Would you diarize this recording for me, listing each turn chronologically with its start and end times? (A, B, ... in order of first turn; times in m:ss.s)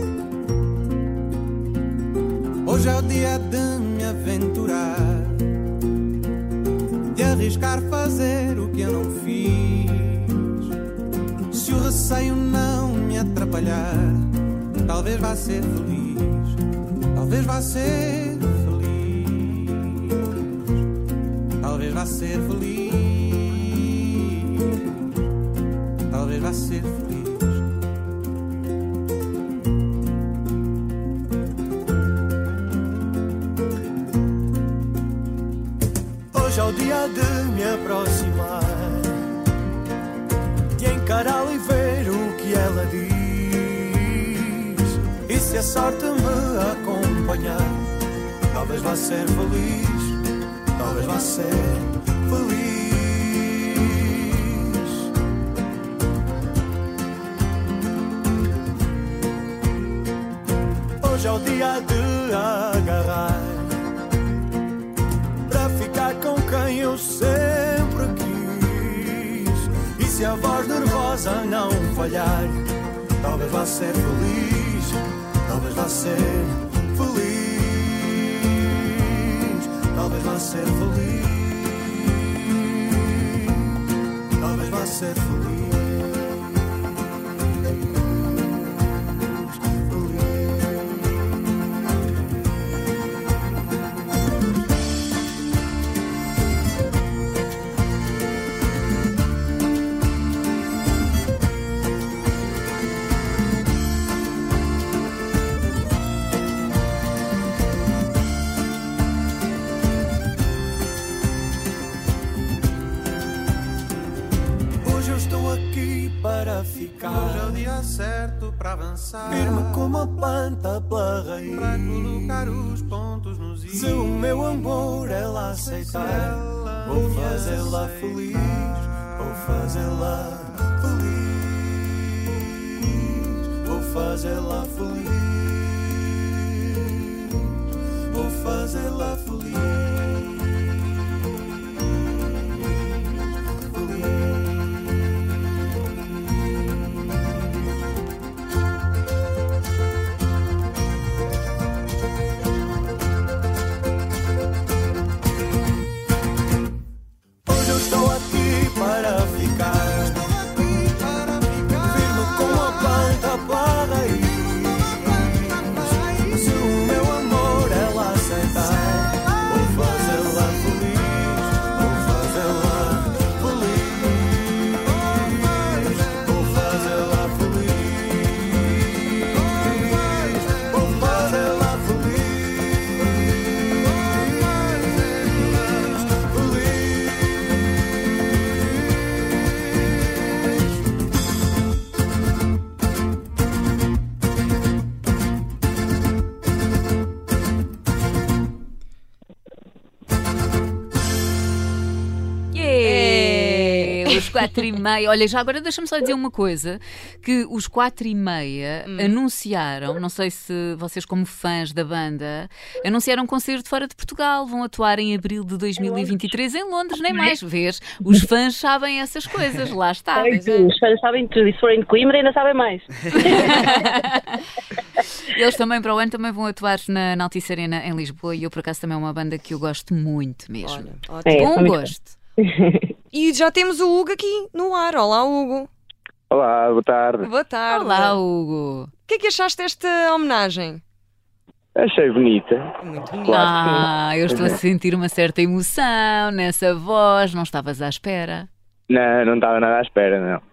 0:02.6-0:05.5 A
0:07.1-0:10.7 A
0:11.5-0:14.3 A
0:14.8-0:16.6 A
0:17.1-0:20.6 A
0:21.6-0:24.8 A
0:26.1-0:27.7 A
0:36.3-0:39.2 B
0:40.8-0:47.8 B
0:48.5-0:50.2 B
0:50.8-0:54.8 B
1:01.0-1:03.7 B
1:05.5-1:12.6 B
1:13.2-1:18.2 B
1:18.8-1:21.6 B
1:24.4-1:26.0 B
1:54.8-1:56.8 B
1:56.8-1:59.9 A
1:59.3-2:02.0 B
2:01.5-2:04.3 A
2:03.8-2:11.4 B
2:05.8-2:08.3 A
2:13.6-2:15.6 B
2:18.1-2:19.8 B
2:37.5-2:40.2 B
2:40.0-2:43.0 A
2:41.9-2:44.8 B
2:44.4-2:46.5 A
2:46.4-2:54.0 B
2:55.4-2:56.2 A
2:55.9-2:58.1 B
3:00.2-3:01.3 A
3:00.7-3:02.6 B
3:06.3-3:06.8 B
3:22.5-3:40.4 C
3:22.9-3:23.7 B
3:35.8-3:36.2 D
3:40.2-3:43.9 D
3:43.1-3:44.4 C
3:45.3-3:52.1 C
3:50.6-3:51.3 E
3:51.3-3:51.9 D
3:52.4-3:52.9 D
3:53.1-3:55.7 E
3:56.3-3:57.3 F
3:57.2-3:58.1 E
3:57.7-3:58.9 C
3:59.0-4:00.8 E
4:01.8-4:04.6 F
4:02.8-4:03.4 E
4:03.3-4:08.5 C
4:08.9-4:10.4 F